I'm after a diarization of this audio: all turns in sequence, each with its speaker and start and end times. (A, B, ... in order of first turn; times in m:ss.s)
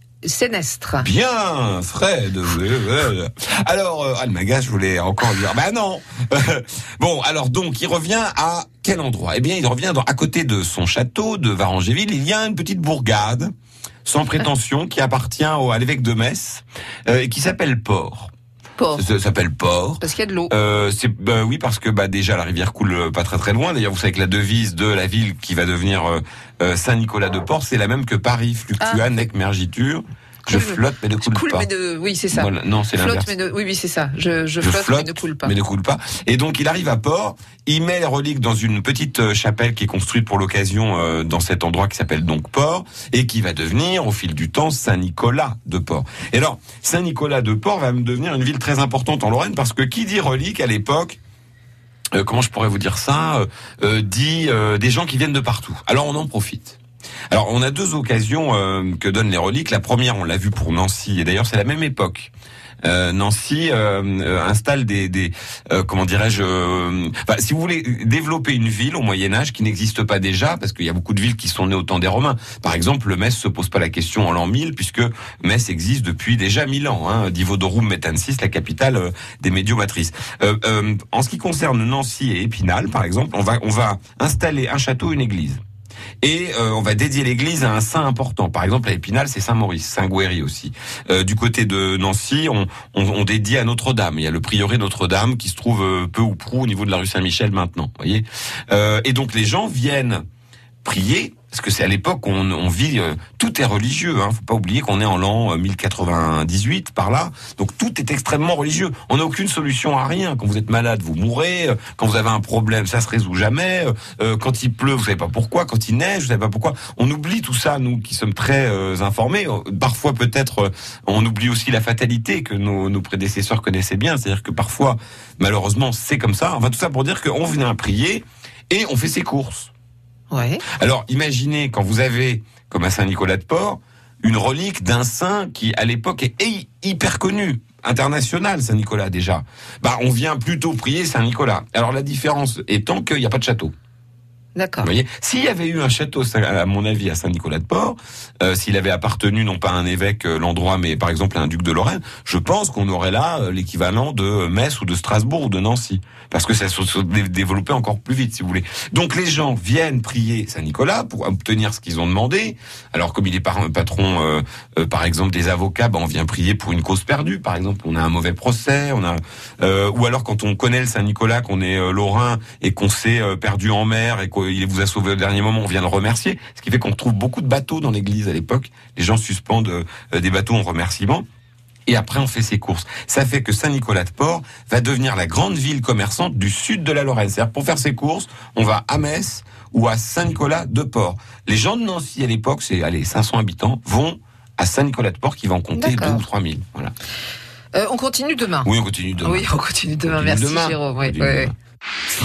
0:00.2-0:01.1 A
0:01.0-0:13.5 B
0:14.0-0:18.3 B
0:18.8-0:19.0 A
0:19.0-0:31.7 B
0:20.0-0:20.5 A
0:28.8-0:29.0 A
0:30.5-0:35.5 A
0:32.3-0:33.3 B
0:34.6-0:51.2 B
0:52.2-0:56.8 B
0:57.3-1:02.3 B
1:02.8-1:25.6 B
1:26.2-1:40.2 B
1:40.8-2:09.7 B
2:10.3-2:10.6 A
2:10.7-2:23.7 B
2:24.6-2:24.9 A
2:24.8-3:01.2 B
3:01.9-3:16.9 B
3:15.8-3:16.2 A
3:17.7-3:21.5 A
3:18.6-3:19.5 B
3:20.0-3:21.5 B